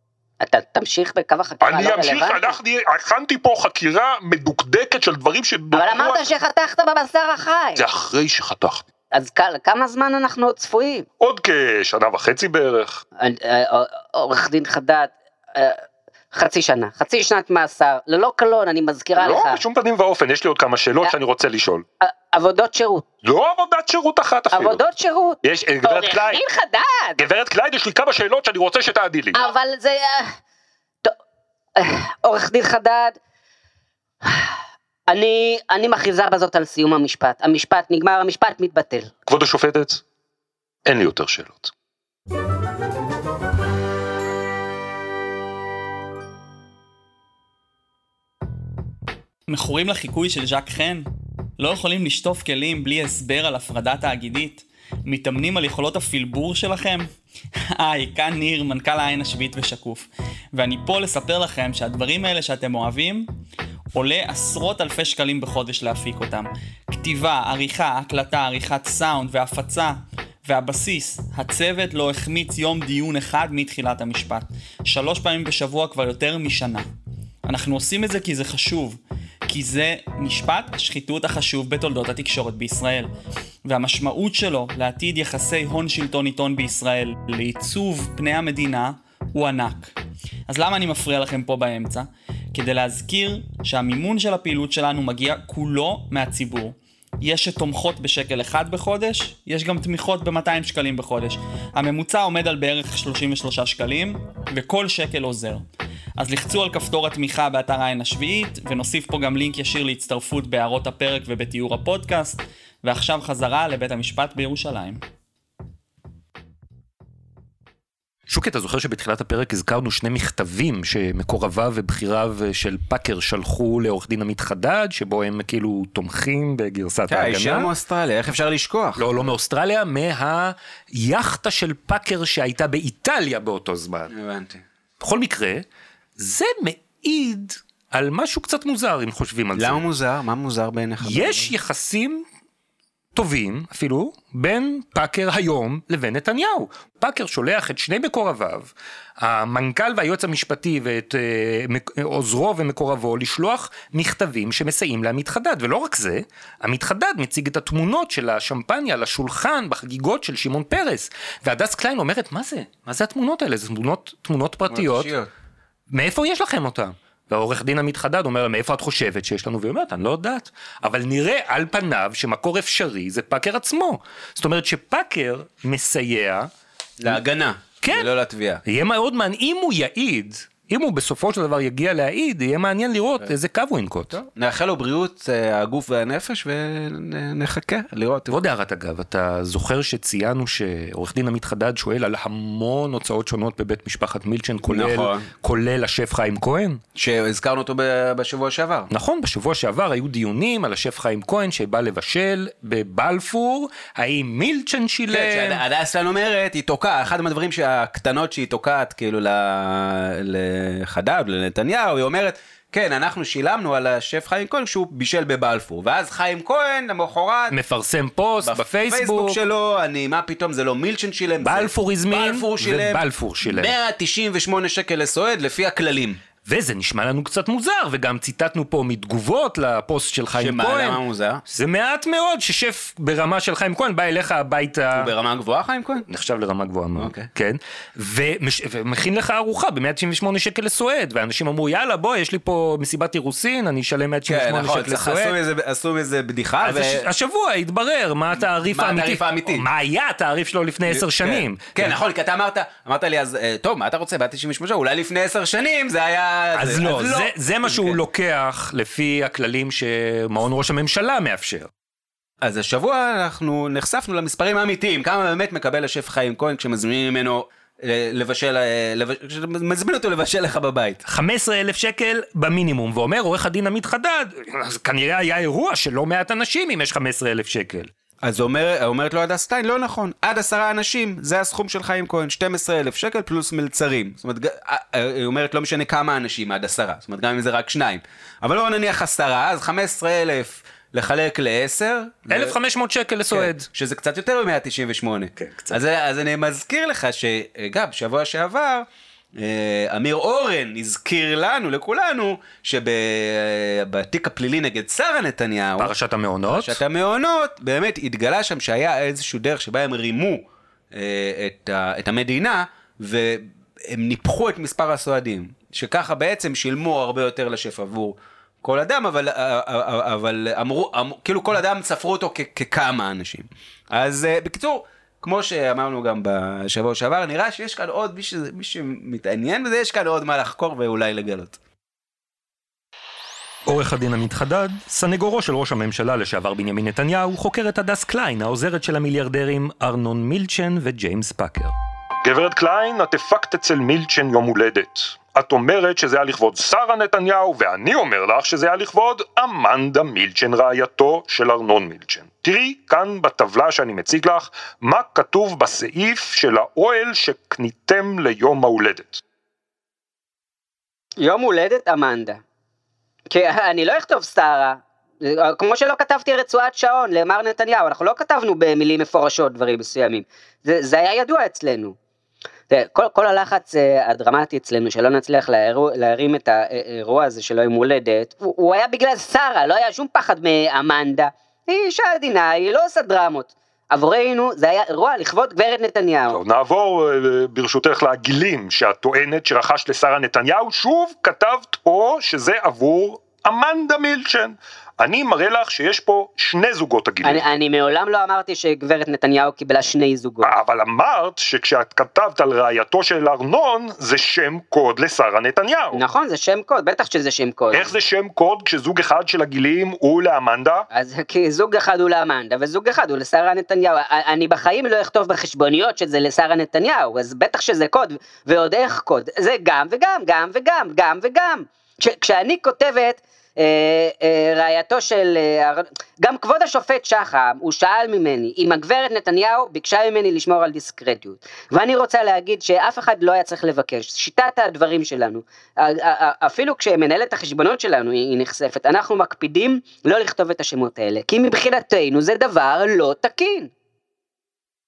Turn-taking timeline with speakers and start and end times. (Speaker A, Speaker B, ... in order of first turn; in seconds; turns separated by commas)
Speaker A: 0.4-2.6, Speaker B: 1.6-6.2, Speaker A: 5.7-7.9, Speaker B: 7.8-8.9, Speaker A: 9.1-11.1, Speaker B: 11.2-13.0, Speaker A: 13.2-15.8, Speaker A: 16.3-19.6, Speaker B: 19.2-21.9, Speaker A: 22.0-23.1, Speaker B: 23.2-24.8, Speaker A: 24.5-27.2, Speaker B: 25.4-26.4, Speaker B: 27.2-29.5, Speaker A: 29.4-30.4, Speaker A: 31.8-33.2, Speaker A: 34.2-34.5, Speaker A: 35.1-39.1, Speaker B: 39.3-40.0, Speaker B: 40.9-41.7, Speaker C: 49.5-51.1, Speaker C: 51.6-57.1, Speaker C: 57.8-63.3, Speaker C: 63.9-76.9, Speaker C: 77.5-83.1, Speaker C: 83.7-89.9, Speaker C: 90.5-105.7, Speaker C: 106.2-115.0, Speaker D: 118.3-127.7, Speaker E: 127.1-129.1, Speaker D: 129.0-134.1, Speaker E: 134.1-134.6, Speaker D: 135.0-135.7, Speaker D: 136.2-139.8, Speaker E: 139.6-141.5, Speaker D: 141.0-142.2, Speaker D: 143.2-165.1, Speaker E: 164.7-165.3, Speaker D: 165.9-176.5, Speaker E: 177.0-178.6, Speaker D: 177.8-178.1, Speaker D: 178.7-184.2, Speaker E: 184.1-188.3, Speaker D: 188.3-196.8, Speaker E: 194.7-195.3, Speaker E: 197.0-198.9, Speaker D: 198.9-205.6, Speaker E: 205.1-217.6, Speaker D: 217.5-219.4, Speaker E: 218.4-226.2, Speaker D: 221.4-223.7, Speaker D: 226.5-235.1, Speaker E: 230.4-231.4, Speaker E: 234.9-236.1, Speaker D: 236.1-245.4, Speaker E: 237.0-237.3, Speaker E: 244.3-247.1, Speaker D: 246.6-251.9, Speaker E: 248.3-249.7, Speaker E: 250.9-258.0, Speaker D: 256.6-261.7, Speaker E: 262.4-271.0, Speaker D: 271.1-277.9, Speaker E: 278.2-292.6, Speaker D: 292.3-293.7, Speaker E: 293.3-305.9, Speaker D: 295.4-295.8, Speaker D: 305.8-306.8, Speaker E: 306.5-331.6, Speaker D: 333.7-341.7, Speaker B: 342.2-359.2, Speaker A: 361.2-362.4, Speaker A: 363.3-372.0, Speaker A: 372.7-386.4, Speaker B: 386.3-397.5, Speaker A: 397.2-400.5, Speaker B: 400.4-406.0, Speaker A: 405.9-407.9, Speaker B: 407.7-410.9, Speaker A: 410.9-443.7